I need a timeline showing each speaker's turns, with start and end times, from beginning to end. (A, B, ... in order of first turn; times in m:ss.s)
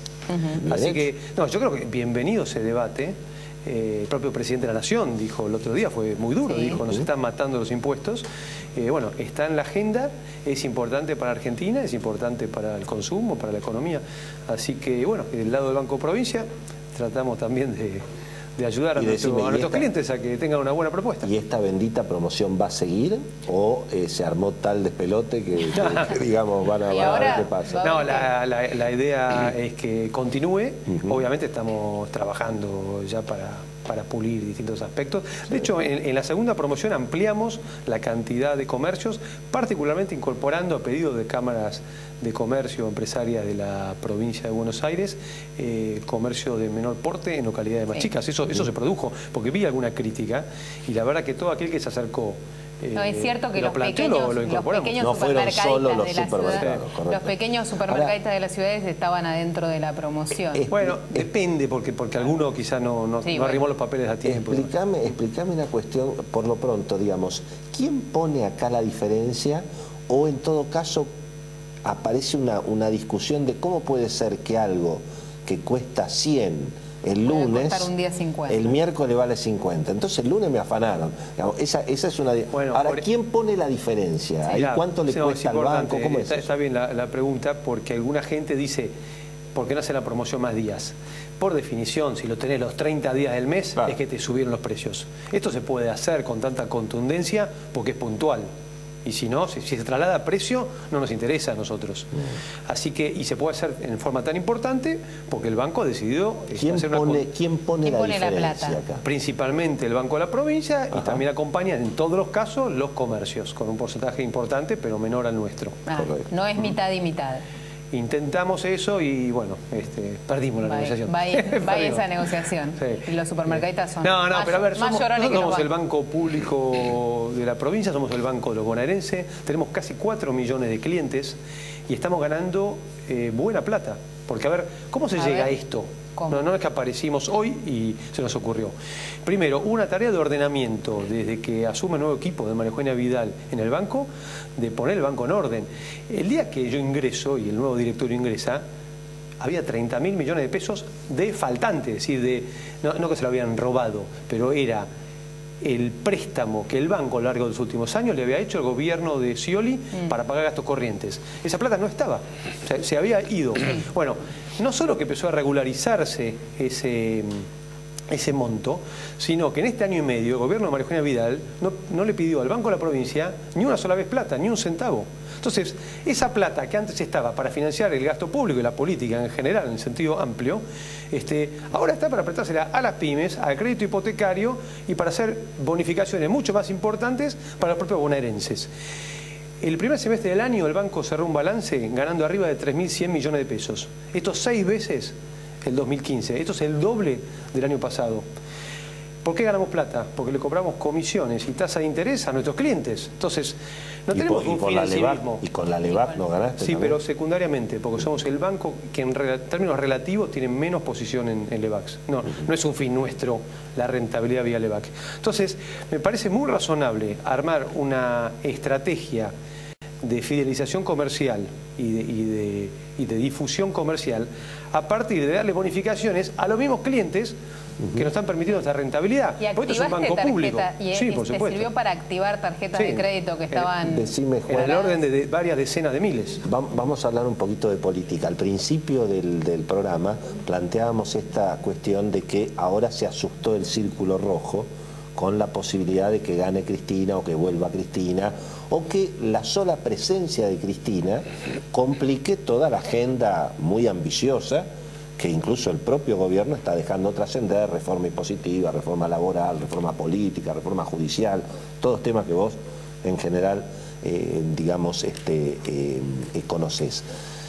0:00.3-0:00.6 A
0:00.6-0:01.1 B
0:00.7-0:18.0 C
0:06.4-0:06.8 A
0:06.8-0:07.1 B
0:18.6-0:21.3 C
0:19.0-0:19.9 B
0:21.2-0:27.9 B
0:25.7-0:26.2 C
0:26.9-0:28.3 A
0:27.0-0:55.1 C
0:30.9-0:31.2 B
0:53.0-1:00.6 A
0:55.0-0:57.4 B
0:56.5-0:56.8 C
0:57.9-0:58.1 B
1:00.5-1:01.3 B
1:00.7-1:04.7 C
1:03.2-1:03.6 A
1:04.2-1:11.1 B
1:11.8-1:17.9 B
1:17.2-1:18.7 A
1:18.5-1:26.5 B
1:22.5-1:23.0 C
1:24.5-1:28.9 C
1:29.5-1:38.5 C
1:39.0-1:42.1 C
1:42.7-1:47.3 C
1:46.6-1:49.0 B
1:47.8-1:48.8 A
1:49.0-1:55.8 C
1:50.9-1:51.2 B
1:55.9-1:57.4 A
1:56.0-1:56.3 B
1:57.9-2:02.1 C
2:00.6-2:05.7 A
2:02.8-2:11.4 C
2:11.9-2:28.6 C
2:15.2-2:15.6 A
2:16.2-2:16.4 A
2:29.4-2:34.9 C
2:35.6-2:47.4 C
2:48.1-3:08.7 C
3:09.6-3:18.2 C
3:19.2-3:23.6 C
3:24.1-3:25.4 C
3:24.1-3:27.0 B
3:25.9-3:26.2 A
3:26.6-3:39.3 C
3:40.0-3:47.4 C
3:47.8-3:48.1 B
3:48.0-3:51.7 C
3:49.4-3:54.0 A
3:52.7-3:53.7 C
3:53.8-3:54.8 B
3:54.5-3:56.4 C
3:54.7-3:54.9 A
3:56.4-4:14.7 B
4:15.2-4:27.0 B